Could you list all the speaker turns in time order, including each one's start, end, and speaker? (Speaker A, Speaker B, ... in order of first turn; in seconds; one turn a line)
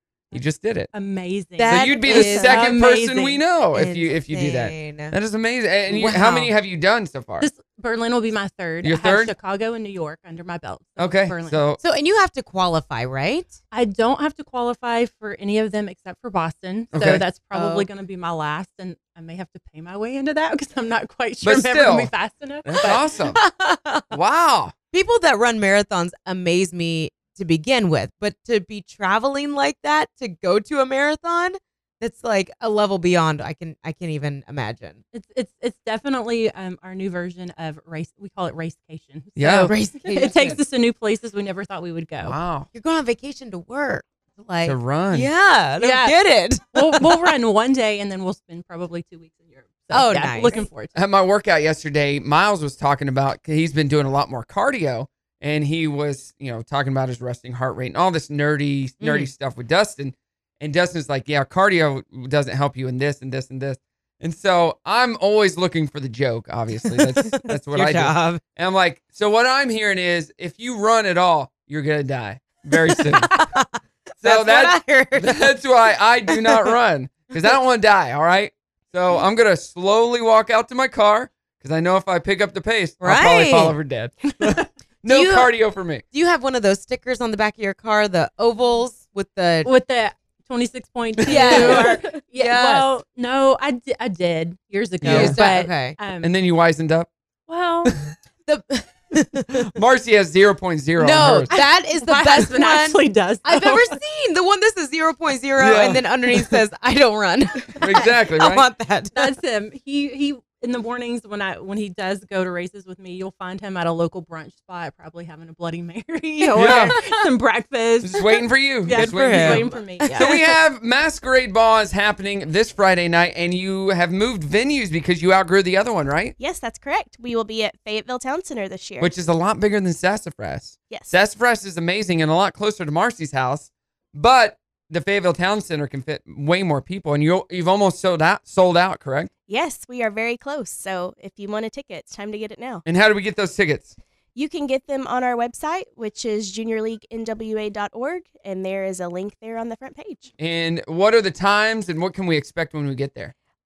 Speaker A: 0.3-0.9
Speaker B: 0.9-3.4
Speaker C: 1.6-2.8
Speaker A: 1.7-7.5
Speaker C: 3.7-5.1
Speaker C: 5.9-6.5
Speaker B: 7.4-11.6
Speaker A: 8.8-9.3
Speaker A: 11.0-11.8
Speaker C: 11.8-13.5
Speaker B: 13.7-23.0
Speaker A: 16.9-17.2
Speaker C: 17.5-17.9
Speaker A: 21.4-22.1
Speaker A: 22.6-23.4
Speaker C: 22.8-24.1
Speaker A: 24.1-24.7
Speaker C: 24.9-35.0
Speaker B: 35.1-42.4
Speaker A: 39.4-39.7
Speaker C: 39.6-40.6
Speaker A: 42.2-42.7
Speaker C: 42.7-47.3
Speaker A: 44.6-45.3
Speaker B: 45.8-46.2
Speaker B: 46.7-50.9
Speaker C: 49.9-50.6
Speaker A: 50.9-73.3
Speaker C: 59.0-59.3
Speaker C: 66.8-68.4
Speaker C: 72.9-75.5
Speaker A: 74.2-86.0
Speaker C: 76.3-76.7
Speaker C: 83.0-83.8
Speaker C: 85.0-85.5
Speaker C: 86.1-89.7
Speaker B: 89.6-96.3
Speaker A: 91.2-91.9
Speaker C: 91.2-93.0
Speaker A: 95.0-95.4
Speaker C: 95.0-96.0
Speaker A: 96.2-97.1
Speaker B: 97.5-97.9
Speaker C: 98.5-99.7
Speaker A: 99.7-101.5
Speaker C: 101.0-109.2
Speaker B: 101.5-104.0
Speaker A: 105.6-106.5
Speaker A: 107.8-108.6
Speaker B: 109.1-120.5
Speaker C: 116.4-117.0
Speaker A: 116.5-117.0
Speaker A: 118.0-126.3
Speaker C: 118.9-120.5
Speaker D: 126.4-129.1
Speaker A: 129.0-139.3
Speaker D: 130.9-131.1
Speaker D: 139.5-142.8
Speaker A: 142.8-143.9
Speaker D: 144.3-150.3
Speaker A: 150.4-153.3